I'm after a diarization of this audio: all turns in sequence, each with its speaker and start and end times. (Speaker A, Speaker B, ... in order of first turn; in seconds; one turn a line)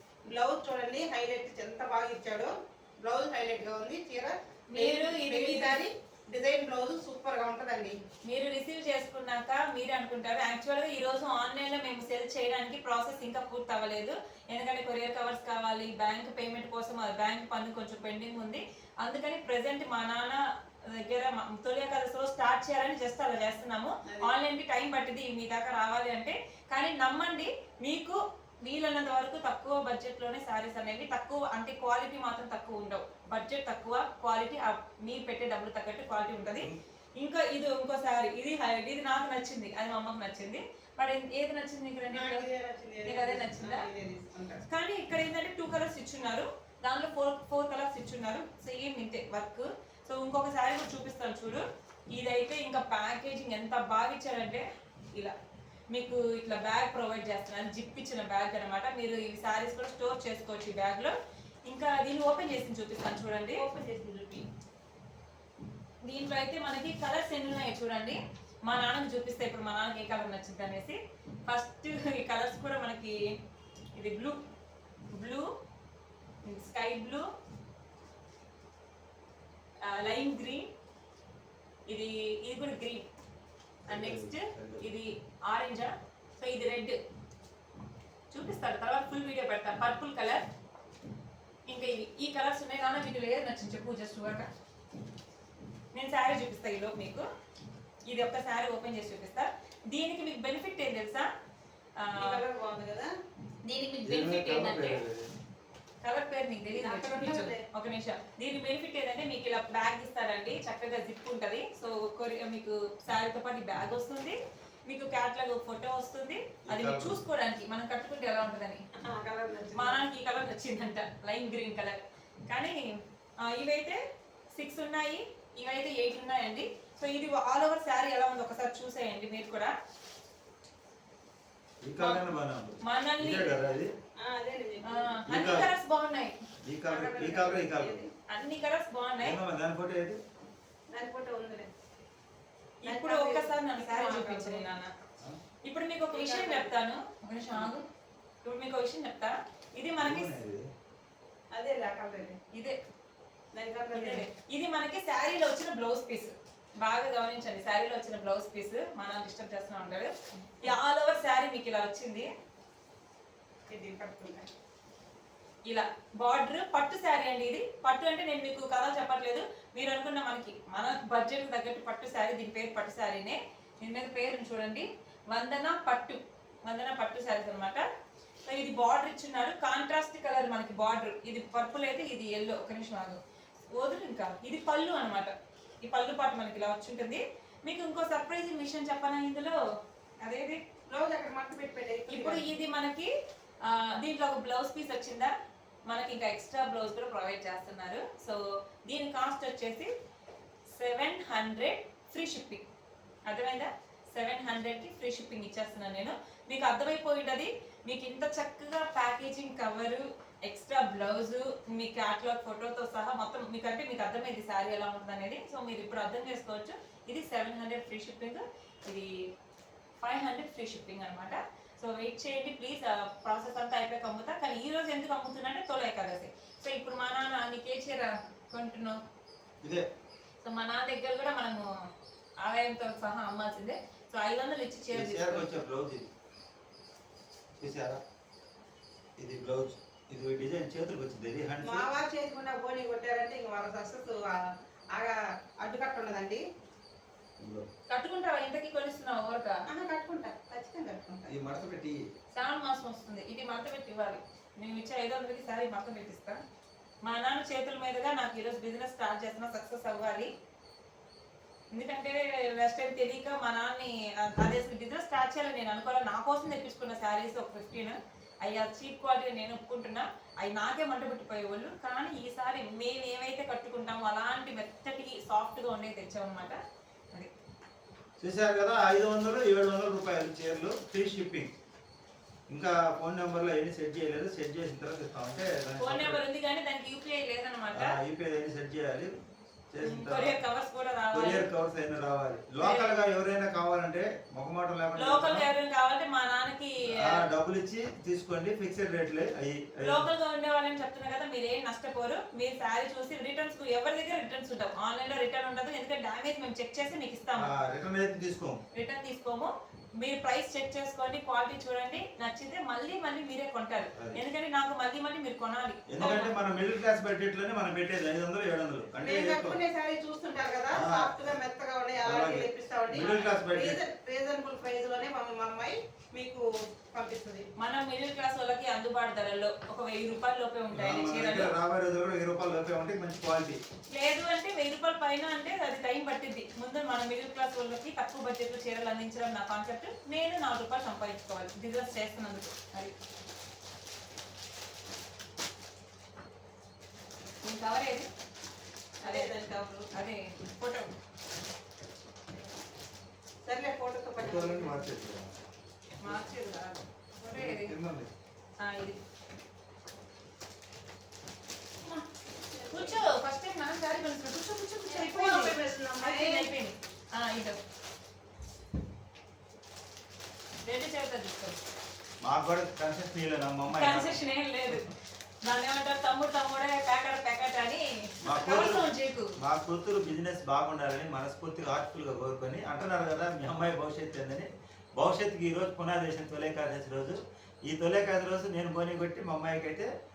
Speaker A: 0.3-8.0
Speaker B: 4.7-5.8
Speaker B: 8.2-20.4
Speaker B: 21.0-42.5
Speaker A: 24.1-24.3
Speaker A: 42.1-44.6
Speaker B: 43.0-43.9
Speaker B: 44.7-55.3
Speaker B: 55.9-61.1
Speaker B: 61.7-63.6
Speaker A: 63.5-64.5
Speaker B: 66.0-71.0
Speaker B: 71.5-73.3
Speaker B: 74.0-74.4
Speaker B: 75.1-75.5
Speaker B: 76.4-77.3
Speaker B: 79.8-80.7
Speaker B: 81.9-83.0
Speaker C: 83.9-84.8
Speaker B: 83.9-87.0
Speaker B: 88.3-90.5
Speaker B: 91.7-94.5
Speaker B: 95.9-97.2
Speaker B: 98.1-101.3
Speaker B: 102.0-102.4
Speaker A: 102.2-103.1
Speaker B: 103.6-105.0
Speaker C: 104.0-105.3
Speaker B: 106.0-118.8
Speaker A: 106.7-107.6
Speaker C: 116.7-117.2
Speaker A: 119.0-120.0
Speaker B: 119.7-124.0
Speaker B: 124.5-129.7
Speaker C: 131.8-133.9
Speaker B: 132.0-132.2
Speaker B: 132.8-133.7
Speaker A: 134.2-135.2
Speaker B: 134.8-136.3
Speaker C: 135.3-135.7
Speaker C: 136.6-138.0
Speaker A: 136.9-138.1
Speaker B: 138.3-139.4
Speaker C: 139.2-140.2
Speaker A: 140.9-141.7
Speaker B: 142.8-144.9
Speaker A: 142.8-144.7
Speaker B: 145.6-147.8
Speaker A: 146.1-146.7
Speaker B: 148.4-150.4
Speaker C: 150.0-150.6
Speaker A: 151.5-152.4
Speaker A: 153.5-154.2
Speaker B: 153.9-162.3
Speaker A: 163.7-164.5
Speaker B: 165.7-177.8
Speaker B: 178.4-183.2
Speaker B: 183.7-189.6
Speaker B: 190.2-190.6
Speaker A: 190.9-192.4
Speaker B: 192.1-193.1
Speaker B: 193.6-195.3
Speaker B: 195.9-199.9
Speaker B: 200.7-202.6
Speaker B: 203.3-219.1
Speaker B: 220.0-229.0
Speaker B: 230.4-231.7
Speaker B: 232.4-235.4
Speaker C: 234.9-236.1
Speaker C: 237.6-238.0
Speaker C: 239.2-241.9
Speaker A: 241.6-246.4
Speaker C: 247.4-247.7
Speaker B: 247.9-249.6
Speaker A: 249.7-251.3
Speaker C: 251.3-252.0
Speaker B: 252.3-256.4
Speaker B: 257.0-260.3
Speaker B: 261.7-276.6
Speaker C: 278.2-281.5
Speaker C: 282.5-286.2
Speaker B: 285.8-288.0
Speaker C: 287.7-289.1
Speaker C: 289.7-290.4
Speaker B: 289.8-291.4
Speaker C: 291.1-295.4
Speaker B: 292.6-292.9
Speaker B: 294.9-297.2
Speaker C: 297.0-300.1
Speaker B: 299.8-307.5
Speaker C: 307.4-308.6
Speaker B: 308.7-316.3
Speaker C: 313.9-314.2
Speaker C: 315.9-319.6
Speaker A: 319.0-327.5
Speaker C: 320.7-321.4
Speaker C: 322.0-323.8
Speaker B: 327.6-331.5
Speaker C: 330.7-333.6
Speaker B: 333.9-342.9
Speaker B: 347.4-348.1
Speaker A: 349.0-349.9
Speaker B: 349.0-349.3
Speaker B: 349.9-350.9
Speaker A: 353.4-354.9
Speaker C: 354.2-355.3
Speaker B: 356.0-357.7
Speaker C: 357.3-358.1
Speaker B: 358.6-359.0
Speaker A: 361.9-363.0
Speaker B: 362.7-367.6
Speaker A: 364.9-366.5
Speaker B: 370.6-371.6
Speaker C: 372.2-374.2
Speaker B: 373.7-379.3
Speaker C: 378.2-389.9